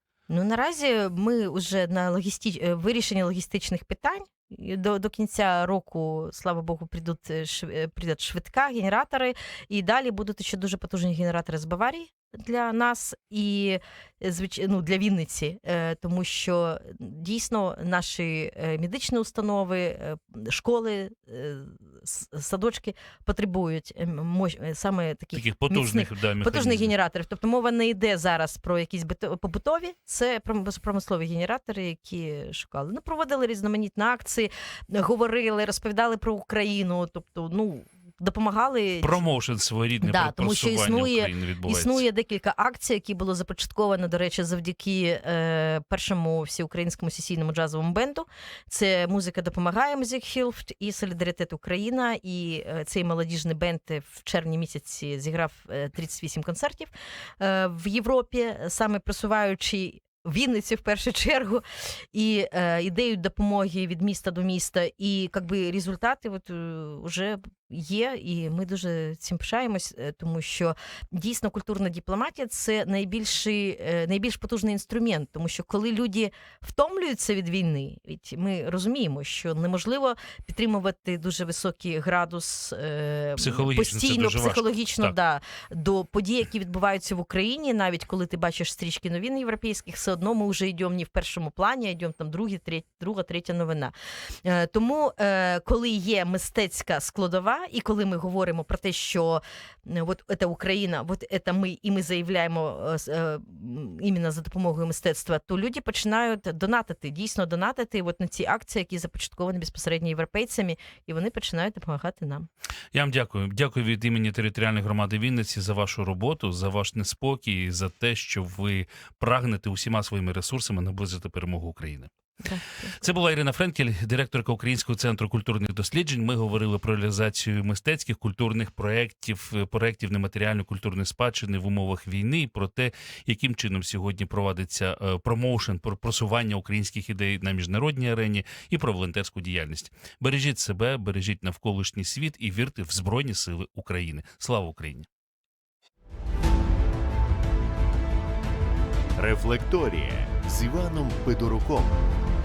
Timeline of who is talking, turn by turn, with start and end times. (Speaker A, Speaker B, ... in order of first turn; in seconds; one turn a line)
Speaker A: 0.3-39.2
Speaker B: 25.3-26.9
Speaker B: 39.0-42.0
Speaker A: 40.0-93.9
Speaker B: 83.4-85.2
Speaker A: 94.4-112.5
Speaker B: 112.9-122.1
Speaker A: 122.4-122.9
Speaker B: 122.8-145.1
Speaker C: 149.2-152.0